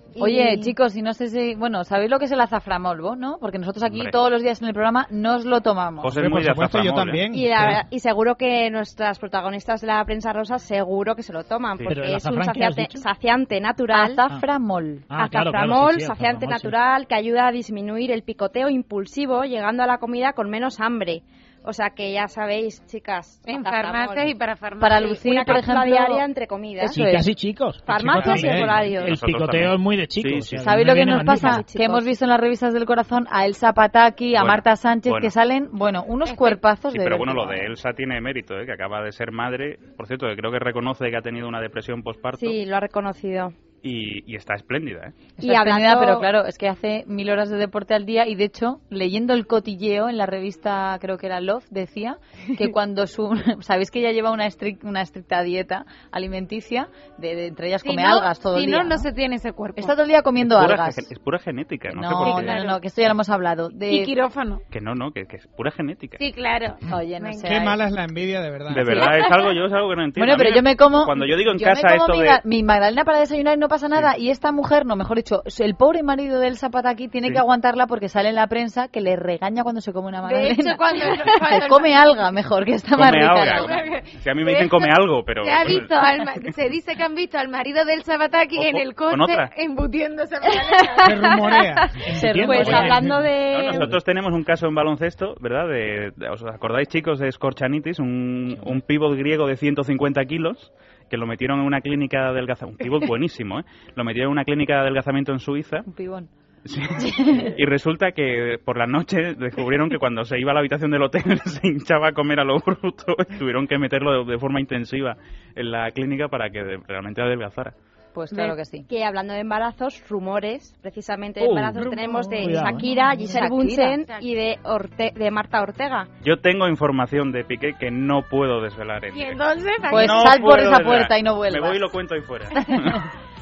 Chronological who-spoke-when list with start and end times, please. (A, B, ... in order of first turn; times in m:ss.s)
0:00.2-0:00.7 A
0:00.2-0:06.1 B
0:03.8-0:04.1 C
0:06.0-0:07.2 C
0:06.1-0:07.8 D
0:07.3-0:14.2 A
0:11.9-0:13.0 E
0:13.9-0:15.0 B
0:15.1-0:16.8 E
0:15.2-0:24.3 A
0:23.5-0:25.6 F
0:24.8-0:26.2 B
0:25.0-0:27.0 A
0:26.8-0:31.6 E
0:26.8-0:27.3 B
0:27.8-0:29.2 A
0:28.4-0:28.8 D
0:29.0-0:30.6 C
0:30.6-0:37.7 B
0:31.1-0:32.1 A
0:34.3-0:35.3 C
0:36.2-0:36.6 F
0:36.9-0:42.6 C
0:42.3-0:43.5 A
0:43.8-0:45.2 C
0:45.4-0:59.1 B
0:45.4-0:46.2 A
0:57.8-0:59.9 F
0:59.8-1:01.1 B
1:00.4-1:02.5 C
1:02.0-1:04.1 B
1:02.0-1:02.8 F
1:03.8-1:04.6 F
1:04.7-1:06.2 C
1:06.2-1:07.6 F
1:06.9-1:07.8 B
1:07.4-1:09.0 D
1:08.7-1:12.4 C
1:08.9-1:09.6 F
1:10.2-1:23.7 B
1:20.2-1:22.1 F
1:22.9-1:26.0 C
1:23.5-1:31.5 F
1:28.5-1:29.5 C
1:30.4-1:31.6 A
1:31.0-1:32.0 D
1:32.0-1:34.0 E
1:32.1-1:33.0 B
1:32.4-1:33.9 A
1:33.5-1:45.9 C
1:38.5-1:38.8 E
1:45.9-1:46.3 B
1:46.6-1:57.7 C
1:47.0-1:47.5 B
1:58.1-1:58.8 B
1:58.3-2:06.1 A
2:01.4-2:03.4 E
2:03.3-2:04.0 B
2:04.0-2:04.4 F
2:06.2-2:13.0 C
2:09.1-2:10.5 F
2:09.9-2:11.8 B
2:12.6-2:13.0 B